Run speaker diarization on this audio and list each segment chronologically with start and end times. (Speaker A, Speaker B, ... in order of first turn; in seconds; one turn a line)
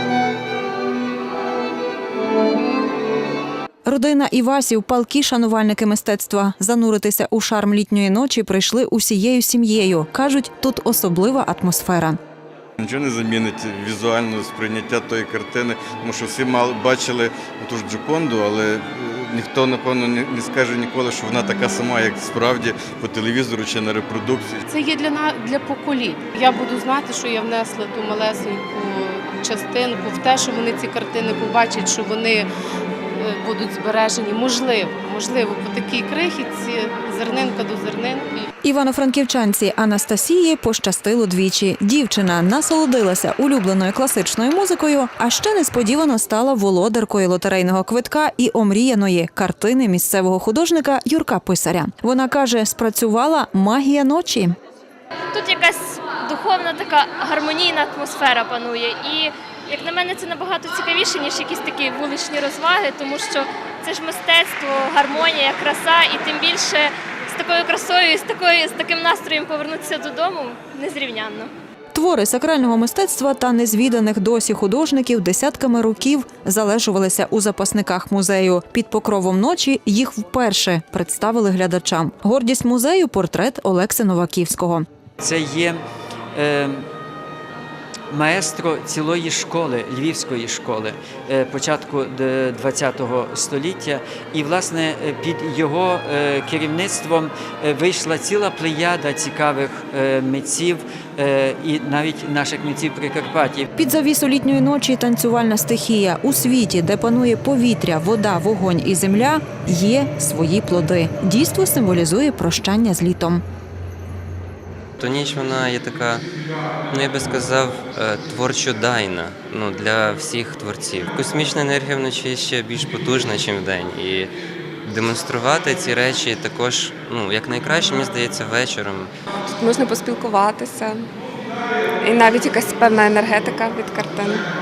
Speaker A: 3.9-12.2
Speaker B: 12.8-24.6
Speaker C: 24.7-32.5
Speaker C: 33.1-38.5
Speaker A: 38.6-54.5
Speaker D: 55.3-71.5
Speaker A: 71.9-84.8
Speaker E: 85.2-85.8
Speaker E: 86.3-86.8
Speaker E: 88.1-103.7
Speaker A: 103.8-113.4
Speaker F: 115.0-116.3
Speaker F: 116.9-129.1
Speaker G: 129.5-131.1
Speaker G: 132.0-134.5